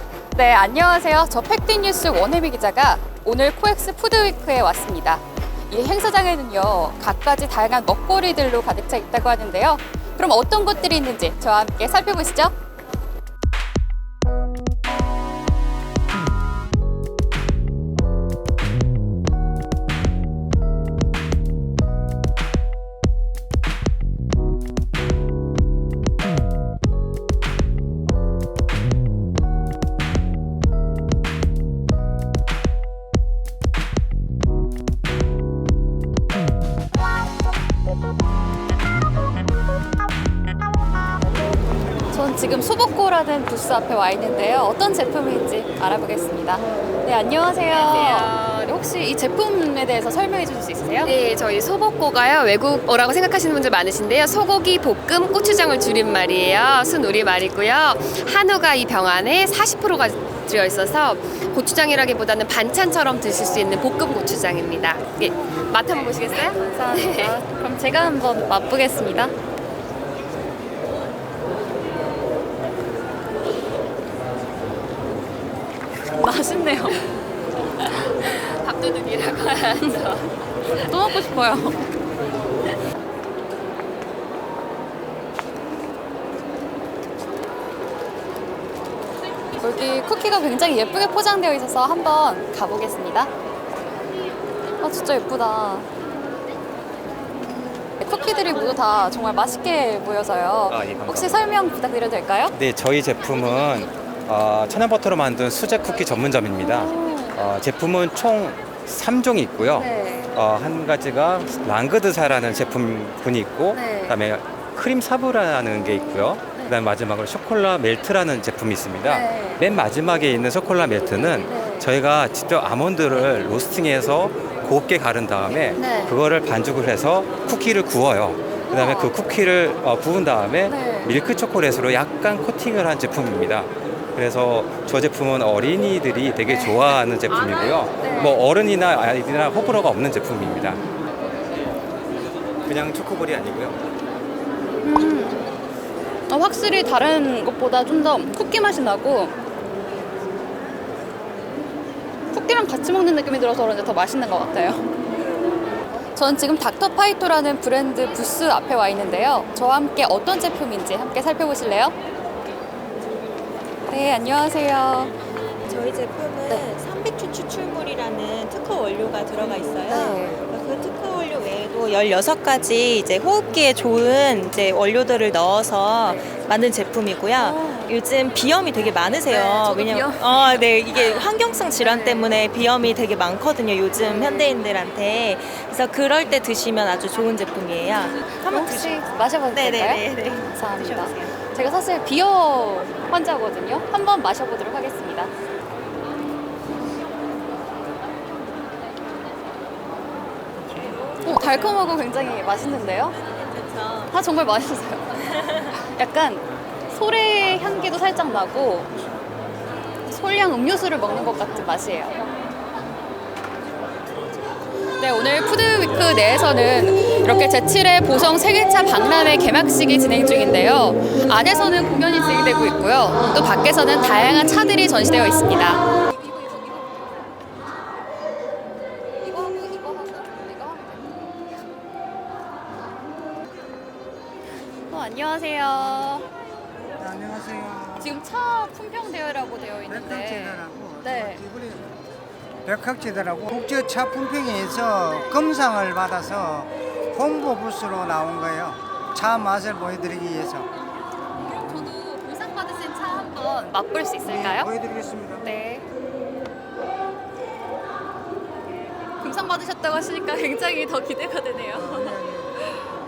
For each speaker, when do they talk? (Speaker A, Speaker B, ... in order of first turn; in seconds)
Speaker A: 0.3-12.5, 42.1-51.1, 66.5-69.3, 76.1-77.1, 77.8-78.3, 80.7-81.8, 89.6-93.3, 94.8-95.9, 98.0-102.5, 106.7-107.4, 109.8-110.3, 113.7-114.2, 119.0-119.7, 121.4-121.9, 125.8-126.2, 128.7-129.1, 130.7-131.2, 136.5-136.9, 138.0-138.4, 144.8-145.4, 146.3-149.3, 152.3-154.9, 156.1-162.0, 163.9-165.1, 169.9-170.4, 177.4-178.0, 179.2-180.6, 181.8-182.3, 184.0-184.5, 188.4-195.3, 201.2-203.2, 204.1-205.1, 205.7-208.9, 210.1-212.3, 215.0-225.9, 229.2-231.2, 234.9-236.3, 238.0-241.4, 251.4-254.7, 255.4-255.9, 259.2-262.9
Speaker B: 47.7-48.7, 51.0-67.3, 78.6-80.3
Speaker C: 100.7-101.4, 102.5-140.8, 142.7-143.8
Speaker D: 165.7-191.3, 203.3-204.1
Speaker E: 237.0-238.2, 239.9-241.9, 242.7-250.7, 254.2-255.5, 261.7-262.6